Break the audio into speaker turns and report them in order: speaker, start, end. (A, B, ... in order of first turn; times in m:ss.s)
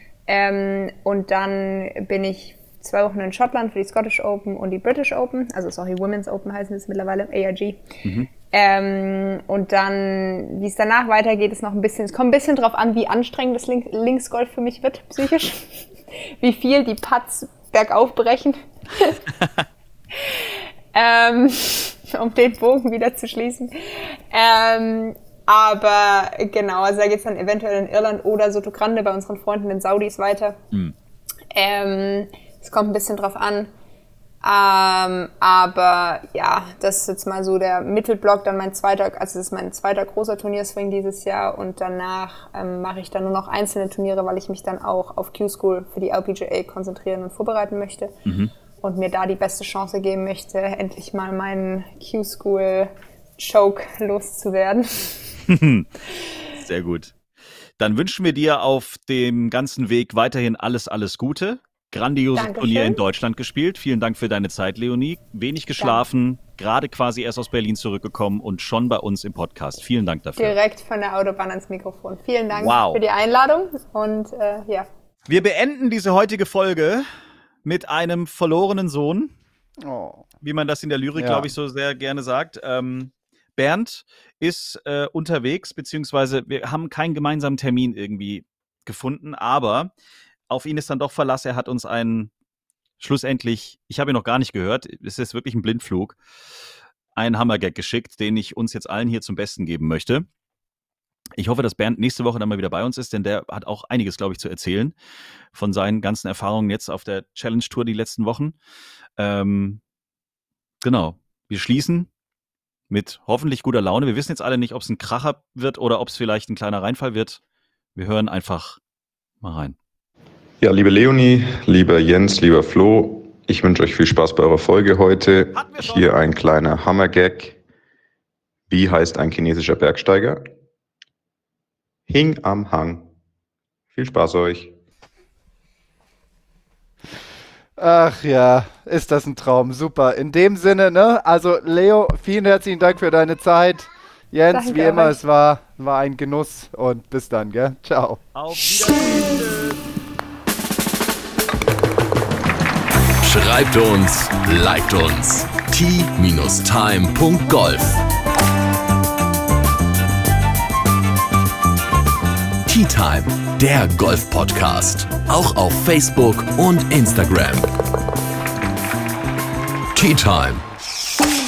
0:00.3-0:07.8 A
0:08.5-0:19.2 A
0:20.2-0:30.6 A
0:31.5-0:33.7 A
0:34.4-0:48.1 A
0:48.3-0:48.5 B
0:48.8-0:55.3 A
0:55.5-0:55.9 B
0:56.5-0:57.2 B
0:57.8-1:10.6 B
1:02.4-1:03.0 A
1:05.8-1:06.0 A
1:10.4-1:14.9 A
1:12.5-1:13.0 B
1:15.3-1:17.1 B
1:17.6-1:19.3 B
1:19.8-1:20.3 C
1:20.4-1:29.9 B
1:21.2-1:21.5 C
1:30.5-1:32.3 B
1:33.0-1:36.2 B
1:37.2-1:40.3 B
1:41.4-1:44.9 B
1:45.5-1:48.6 B
1:49.2-1:49.8 B
1:50.8-1:52.1 B
1:52.9-1:57.4 B
1:58.0-1:58.8 B
1:59.4-1:59.8 B
2:00.6-2:07.6 D
2:05.5-2:06.2 B
2:08.7-2:10.4 D
2:12.1-2:13.0 D
2:13.9-2:14.7 D
2:17.8-2:28.2 C
2:24.5-2:25.2 A
2:28.4-2:29.8 B
2:33.2-2:38.0 E
2:42.7-2:47.7 E
2:49.9-2:50.6 E